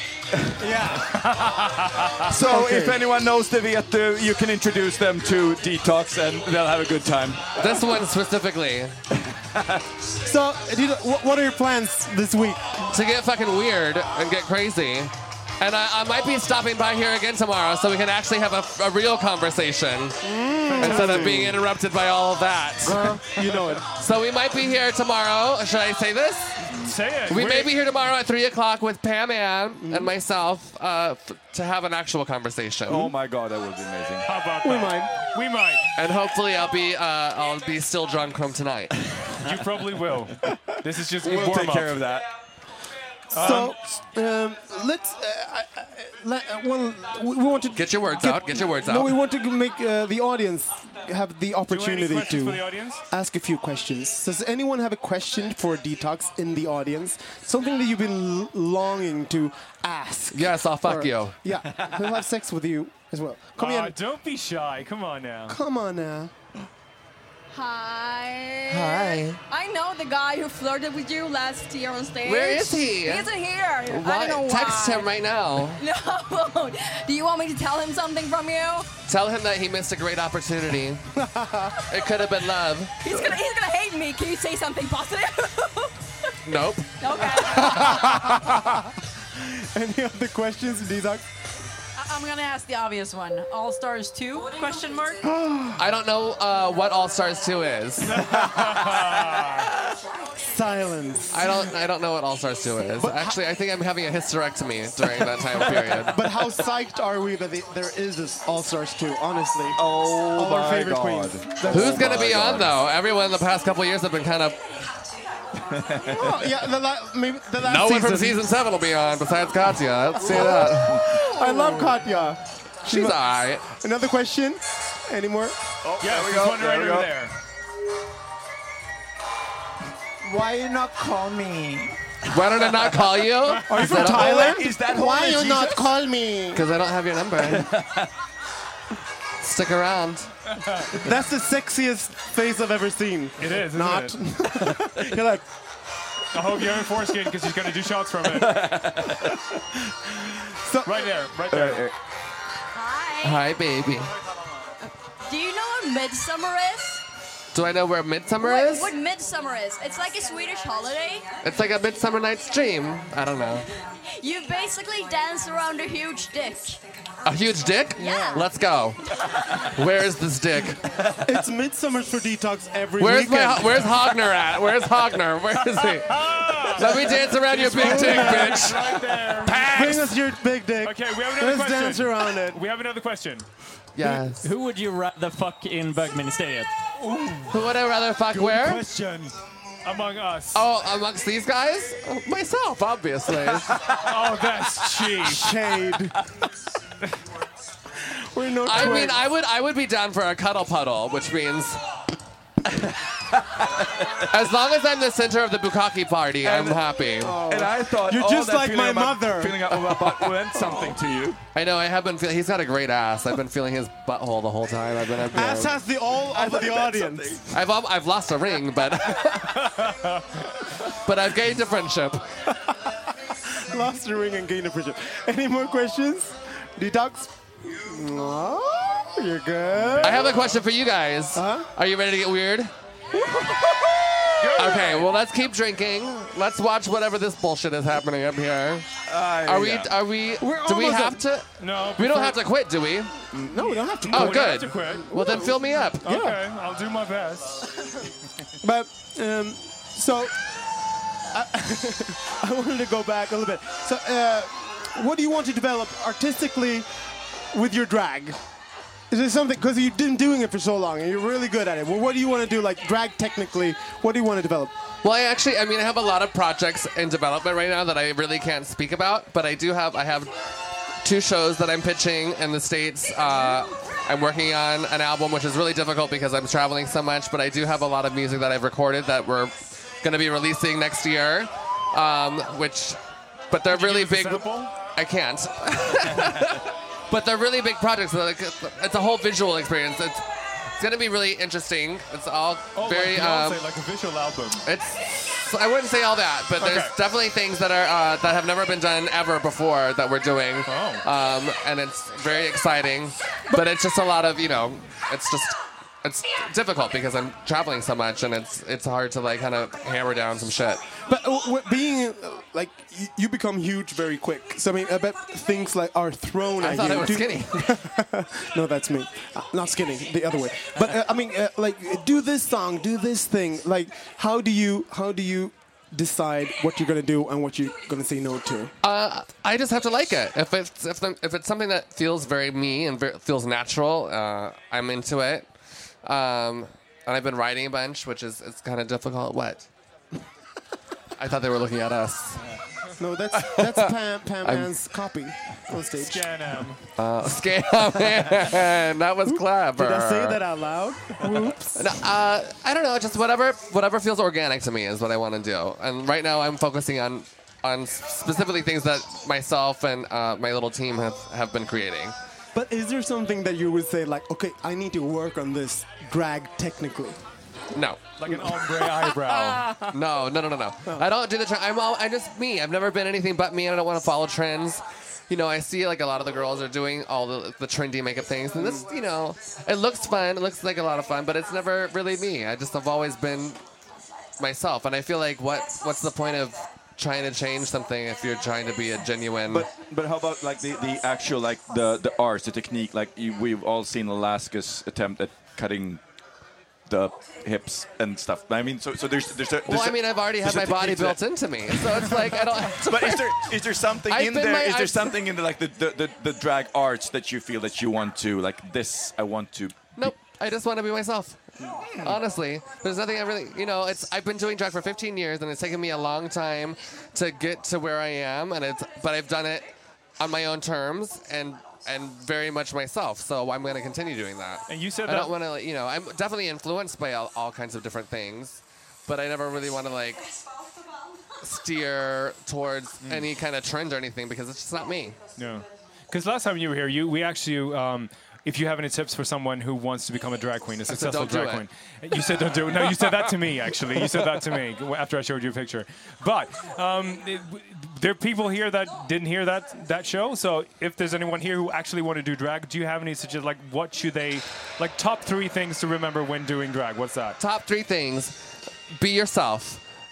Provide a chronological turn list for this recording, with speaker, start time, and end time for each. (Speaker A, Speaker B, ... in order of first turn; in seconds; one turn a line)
Speaker A: 0.6-1.1
Speaker B: 1.1-2.3
Speaker C: 2.2-7.6
Speaker A: 2.4-3.0
Speaker D: 7.6-8.9
Speaker C: 9.3-9.8
Speaker A: 10.2-12.9
Speaker D: 12.9-20.2
Speaker A: 20.2-21.6
Speaker B: 20.7-21.3
Speaker D: 20.8-26.7
Speaker A: 22.9-23.9
Speaker B: 26.7-27.7
Speaker D: 27.3-33.1
Speaker A: 29.8-30.1
Speaker C: 32.9-34.3
Speaker B: 34.2-35.9
Speaker A: 34.6-35.2
Speaker D: 36.0-38.9
Speaker B: 39.4-42.0
Speaker C: 41.2-42.3
Speaker B: 43.3-43.7
Speaker A: 43.4-64.0
Speaker D: 47.7-49.1
Speaker B: 51.7-53.0
Speaker D: 60.3-61.4
Speaker B: 63.6-65.6
Speaker A: 65.5-66.3
Speaker E: 67.5-75.1
Speaker D: 68.7-69.4
Speaker D: 72.2-73.3
Speaker D: 73.9-75.8
Speaker E: 75.8-78.9
Speaker D: 79.1-81.0
Speaker A: 81.1-81.8
Speaker D: 81.9-83.2
Speaker E: 83.0-85.9
Speaker D: 86.5-88.2
Speaker E: 87.0-88.3
Speaker A: 87.6-88.8
Speaker A: 89.4-91.2
Speaker E: 92.0-95.2
Speaker A: 95.2-95.8
Speaker D: 95.8-98.4
Speaker B: 98.2-99.7
Speaker A: 98.3-98.6
Speaker A: 100.4-101.7
Speaker D: 101.3-106.2
Speaker A: 103.0-103.4
Speaker A: 106.1-112.2
Speaker C: 109.8-112.7
Speaker D: 111.7-114.6
Speaker C: 115.6-116.4
Speaker A: 116.1-118.4
Speaker D: 117.6-121.2
Speaker A: 120.2-125.6
Speaker C: 120.3-121.2
Speaker D: 122.9-123.7
Speaker C: 125.8-127.1
Speaker B: 126.0-127.3
Speaker C: 130.3-131.9
Speaker D: 132.3-134.6
Speaker A: 133.7-136.7
Speaker C: 133.7-135.9
Speaker D: 136.5-137.7
Speaker C: 137.4-138.1
Speaker D: 139.4-140.3
Speaker B: 140.6-140.9
Speaker A: 140.9-145.4
Speaker B: 143.4-144.2
Speaker B: 146.3-148.7
Speaker C: 148.2-149.4
Speaker A: 150.6-151.1
Speaker B: 150.9-151.8
Speaker C: 151.5-151.9
Speaker E: 152.7-153.4
Speaker D: 153.2-154.1
Speaker E: 155.3-157.0
Speaker D: 157.5-158.9
Speaker E: 158.4-161.2
Speaker D: 161.4-163.7
Speaker E: 164.2-166.8
Speaker D: 167.2-170.8
Speaker E: 168.0-168.5
Speaker C: 171.0-171.3
Speaker A: 171.2-173.9
Speaker D: 173.0-180.1
Speaker B: 175.8-180.0
Speaker A: 177.7-178.9
Speaker A: 179.5-182.6
Speaker B: 180.8-183.4
Speaker D: 183.9-184.5
Speaker F: 184.4-186.7
Speaker B: 187.0-187.5
Speaker D: 187.5-188.8
Speaker A: 188.4-188.9
Speaker B: 188.4-189.3
Speaker B: 189.8-190.6
Speaker D: 190.5-193.8
Speaker B: 194.0-195.5
Speaker A: 195.2-196.2
Speaker A: 198.1-199.2
Speaker D: 198.6-201.8
Speaker D: 204.3-207.4
Speaker C: 206.4-206.8
Speaker A: 207.2-209.6
Speaker C: 207.4-211.4
Speaker D: 209.7-210.8
Speaker D: 211.5-215.8
Speaker A: 215.3-217.4
Speaker C: 216.3-217.5
Speaker D: 217.5-219.8
Speaker B: 219.8-220.2
Speaker D: 220.9-222.2
Speaker A: 222.7-230.4
Speaker D: 230.0-232.7
Speaker A: 231.3-231.7
Speaker A: 233.2-234.5
Speaker B: 234.4-235.1
Speaker D: 234.6-238.9
Speaker C: 239.1-239.9
Speaker D: 239.4-243.2
Speaker A: 240.4-241.2
Speaker B: 241.6-242.4
Speaker A: 243.3-246.4
Speaker B: 244.0-245.1
Speaker D: 244.1-246.2
Speaker B: 246.0-247.6
Speaker A: 248.6-250.4
Speaker A: 251.3-256.9
Speaker A: 257.5-258.4
Speaker A: 259.1-264.8
Speaker D: 265.0-270.3
Speaker D: 271.0-283.0
Speaker D: 283.5-290.2
Speaker B: 283.7-284.7
Speaker D: 290.8-293.6
Speaker B: 292.7-294.6
Speaker D: 294.6-310.9
Speaker B: 296.6-296.9
Speaker B: 300.6-301.1
Speaker A: 311.1-328.7
Speaker D: 316.6-317.8
Speaker D: 328.8-335.5
Speaker D: 336.1-339.7
Speaker D: 341.2-342.4
Speaker A: 343.0-346.3
Speaker D: 343.3-344.7
Speaker B: 346.0-346.8
Speaker D: 347.0-350.4
Speaker A: 349.2-351.9
Speaker D: 351.7-362.1
Speaker A: 362.6-367.2
Speaker D: 367.7-368.1
Speaker B: 368.2-369.8
Speaker A: 368.3-369.7
Speaker D: 369.9-383.6
Speaker A: 378.6-378.9
Speaker D: 384.4-389.7
Speaker C: 389.5-396.0
Speaker C: 396.9-401.2
Speaker D: 399.7-403.5
Speaker C: 401.7-410.1
Speaker D: 404.1-405.2
Speaker D: 410.0-411.4
Speaker C: 411.8-412.1
Speaker D: 412.0-419.7
Speaker D: 420.2-430.3
Speaker B: 424.7-425.3
Speaker D: 431.4-435.2
Speaker B: 435.4-457.4
Speaker D: 440.9-441.6
Speaker D: 457.4-458.4
Speaker D: 458.9-459.8